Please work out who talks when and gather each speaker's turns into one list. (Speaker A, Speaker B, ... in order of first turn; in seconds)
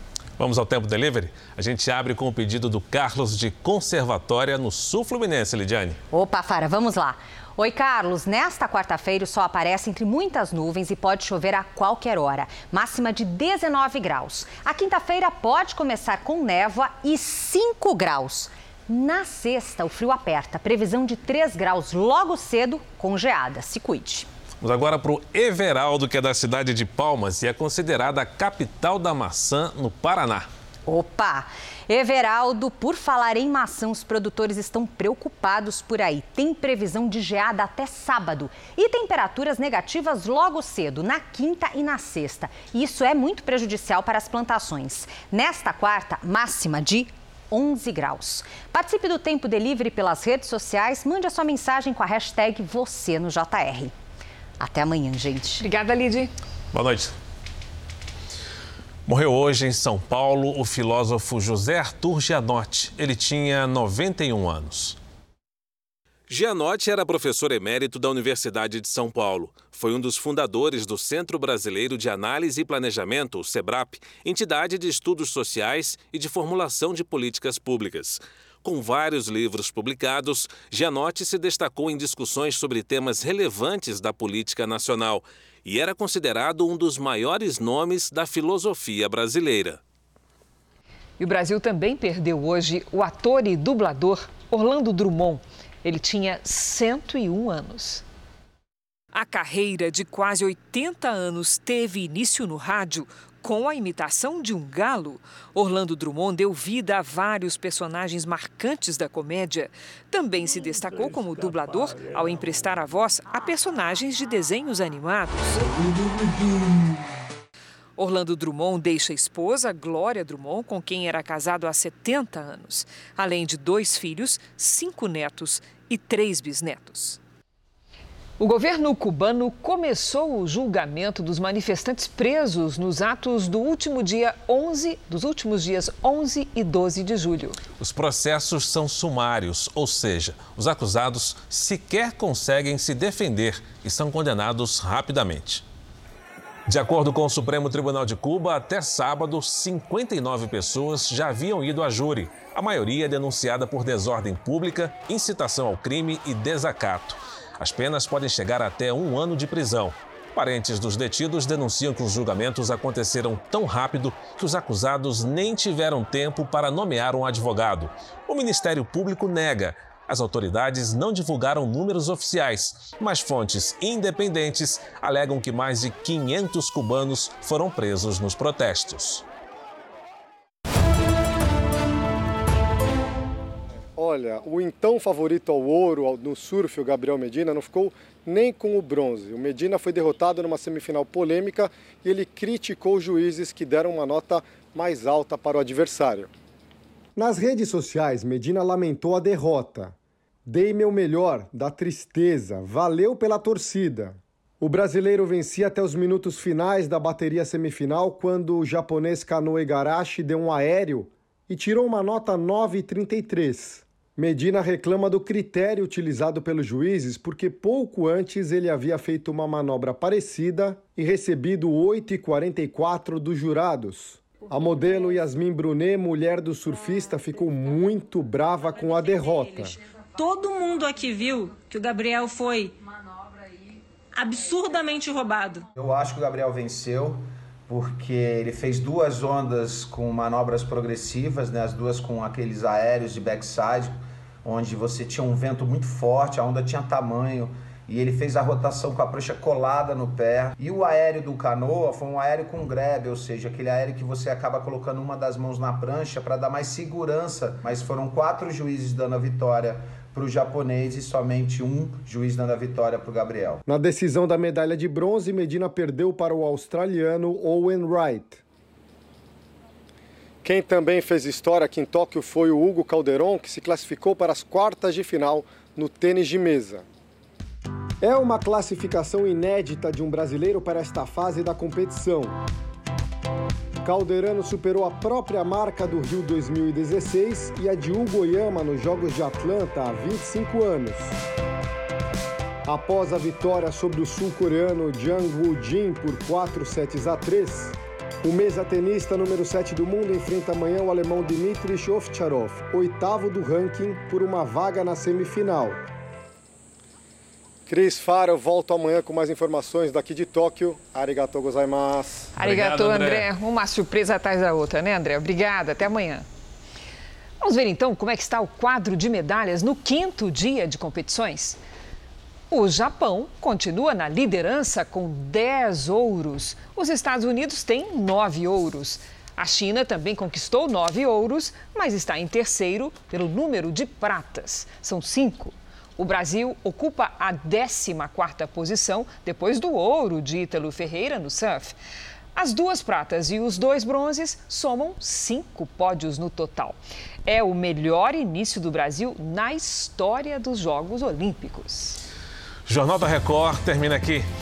Speaker A: 0.4-6.0, 24.6-30.5, 56.7-57.1, 59.1-65.0, 66.3-89.8, 137.8-145.7, 146.7-179.2, 312.4-313.3, 352.7-354.3
Speaker B: 6.1-24.3, 30.9-53.9, 54.6-55.6
Speaker C: 55.6-56.3, 91.2-98.0, 99.1-115.7, 118.0-127.2, 128.4-137.6, 312.4-316.3, 317.4-321.6, 322.5-341.8, 342.4-352.0
Speaker D: 184.0-196.3, 197.2-199.9, 200.5-229.8, 263.7-268.4, 270.4-276.9, 278.0-282.4, 283.8-291.1, 292.7-305.8, 307.7-312.3
Speaker E: 230.2-232.7, 234.2-235.6
Speaker F: 235.8-263.7